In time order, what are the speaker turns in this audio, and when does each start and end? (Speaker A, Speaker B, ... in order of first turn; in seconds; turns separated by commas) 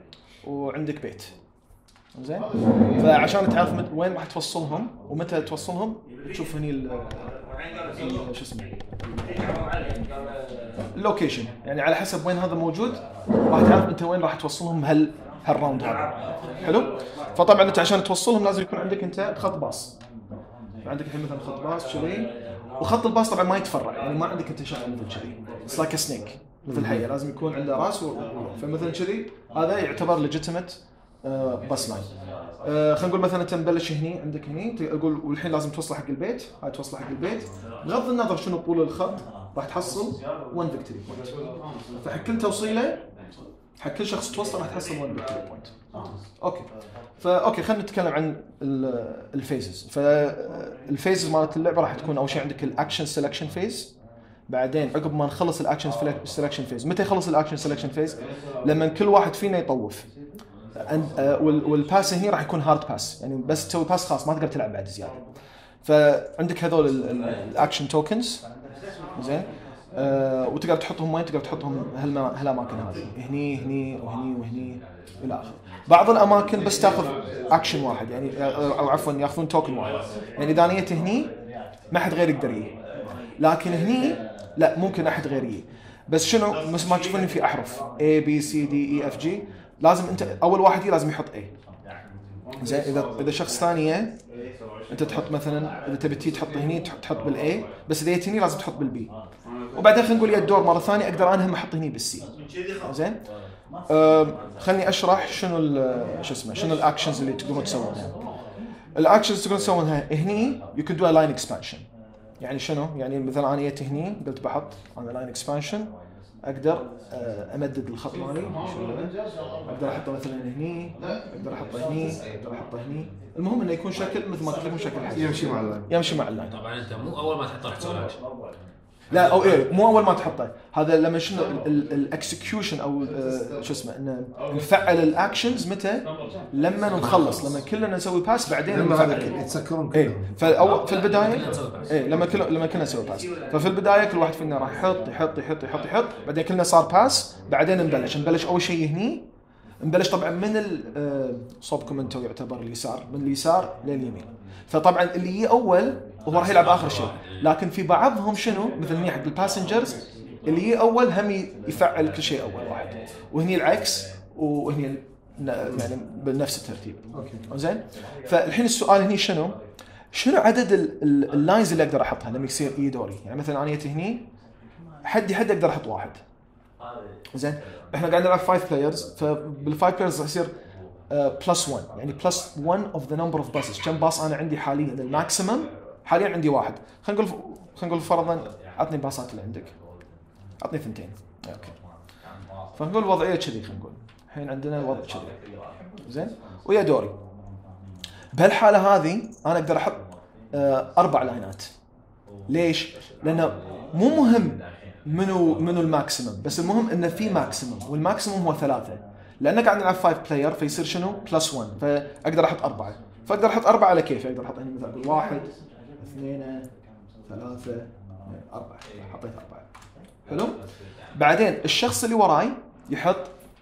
Speaker A: 0.4-1.4, Speaker A: 2.1-7.3, Speaker A: 7.9-9.2, Speaker A: 10.9-19.9, Speaker A: 20.8-32.1, Speaker B: 26.6-27.1, Speaker A: 32.6-41.3, Speaker A: 42.0-43.0, Speaker A: 43.8-45.7, Speaker A: 46.4-53.9, Speaker A: 54.5-60.1, Speaker A: 60.8-65.2, Speaker A: 65.8-68.4, Speaker A: 69.2-81.3, Speaker A: 81.9-82.7, Speaker A: 83.4-91.5, Speaker A: 92.6-94.2, Speaker A: 94.9-99.1, Speaker A: 99.7-103.2, Speaker A: 103.9-108.1, Speaker A: 108.9-111.8, Speaker A: 112.4-115.9, Speaker A: 116.5-119.1, Speaker A: 119.7-126.5, Speaker B: 125.1-125.9, Speaker C: 126.5-128.2, Speaker C: 129.1-129.7, Speaker A: 129.1-139.3, Speaker C: 136.9-137.6, Speaker B: 138.7-140.3, Speaker A: 139.9-149.2, Speaker C: 140.5-142.3, Speaker A: 149.8-169.6, Speaker C: 156.3-157.5, Speaker B: 167.1-167.5, Speaker A: 170.1-174.2, Speaker A: 175.0-176.2, Speaker A: 177.3-180.5, Speaker A: 181.1-189.7, Speaker A: 190.6-191.8, Speaker A: 192.7-195.4, Speaker A: 196.0-197.2, Speaker A: 198.3-201.7, Speaker A: 202.5-216.7, Speaker A: 217.3-219.7, Speaker A: 220.3-220.6, Speaker A: 221.1-223.3